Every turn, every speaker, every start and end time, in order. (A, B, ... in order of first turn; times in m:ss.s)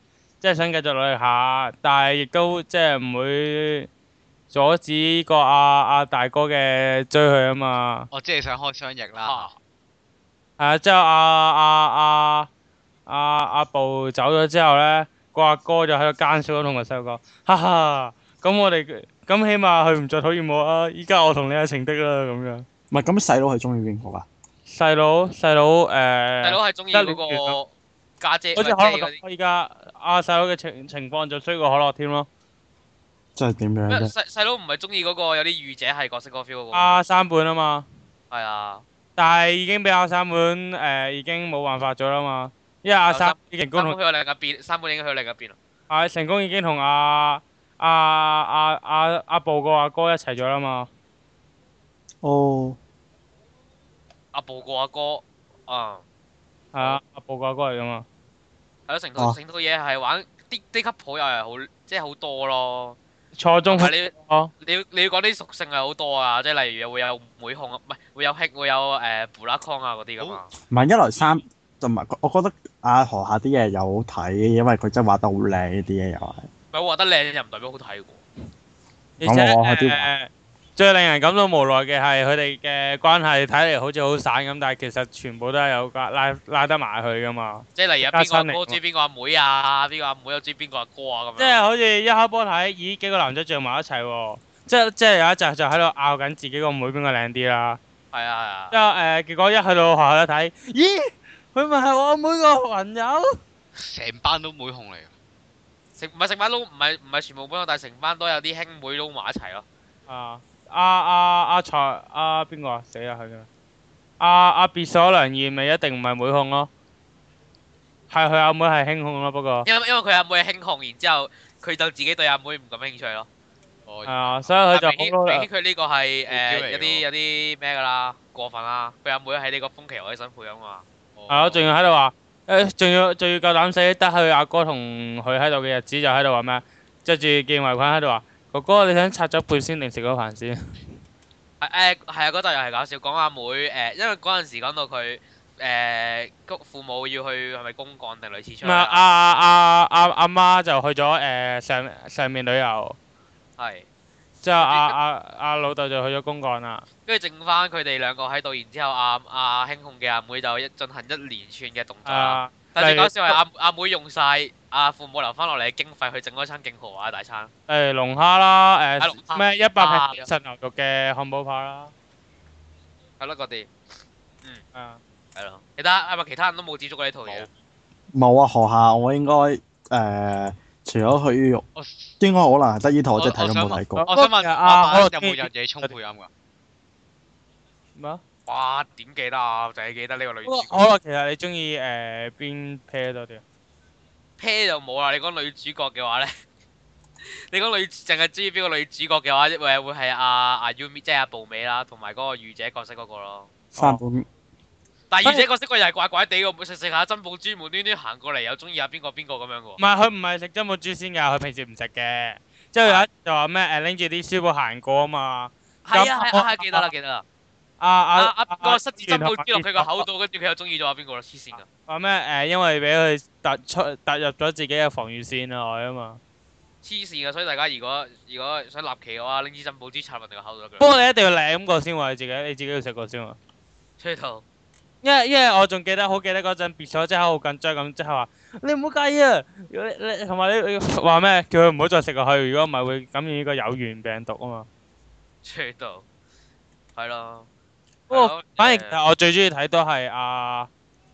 0:00.4-0:03.9 A
0:04.5-0:08.1 A
0:08.1-0:09.6 B
0:09.2-0:09.5 C
0:10.6-0:12.5 A
0:13.1-0:22.7 A
0:22.9-0:24.3 D
0:24.7-0:27.6 A
0:26.4-0:27.7 C
0:28.2-0:29.2 C
0:28.6-0:32.3 A
0:33.4-0:34.1 D
0:33.9-0:37.0 C
0:36.7-0:37.8 A
0:38.3-0:38.8 C
0:39.2-0:44.0 A
0:43.1-0:45.6 C
0:45.9-0:50.9 A
0:52.2-0:52.8 D
0:54.3-0:56.0 C
0:56.7-0:58.0 A
0:58.9-1:03.0 C
1:03.4-1:04.5 A
1:03.7-1:10.5 C
1:10.7-1:16.5 D
1:16.7-1:18.2 C
1:19.2-1:20.1 D
1:19.2-1:28.8 A
1:27.8-1:31.6 C
1:31.4-1:37.8 A
1:38.1-1:38.8 C
1:38.7-1:43.4 A
1:43.8-1:45.1 B
1:46.0-1:49.6 C
1:50.1-1:53.5 A
1:54.2-1:56.7 A
1:58.1-1:59.7 A
1:59.6-2:03.3 C
2:03.9-2:04.6 B
2:04.1-2:05.4 A
2:04.7-2:10.8 C
2:06.3-2:07.0 B
2:11.2-2:11.7 B
2:11.3-2:20.6 A
2:21.6-2:29.0 C
2:28.6-2:33.0 A
2:33.6-2:33.9 C
2:34.4-2:36.9 A
2:34.6-2:35.0 C
2:37.1-2:47.5 C
2:42.1-2:43.4 A
2:47.7-2:51.9 A
2:49.0-2:50.3 C
2:53.2-2:53.7 C
2:54.8-2:55.0 A
2:55.4-2:57.5 C
2:58.1-3:01.6 D
3:01.8-3:02.1 B
3:02.2-3:04.1 D
3:03.2-3:06.3 B
3:04.0-3:05.9 A
3:08.0-3:08.2 A
3:08.5-3:10.7 C
3:10.5-3:13.4 A
3:14.4-3:16.3 C
3:17.2-3:23.5 C
3:23.8-3:24.0 A
3:23.8-3:24.3 D
3:25.1-3:29.8 C
3:29.8-3:36.9 A
3:35.8-3:37.2 C
3:37.8-3:40.1 A
3:38.2-3:41.6 C
3:41.9-3:46.2 A
3:46.8-3:50.9 C
3:50.8-3:53.4 A
3:54.0-3:54.4 C
3:55.0-4:04.7 A
4:05.4-4:06.0 C
4:07.0-4:07.5 C
4:08.1-4:09.0 C
4:08.1-4:10.7 A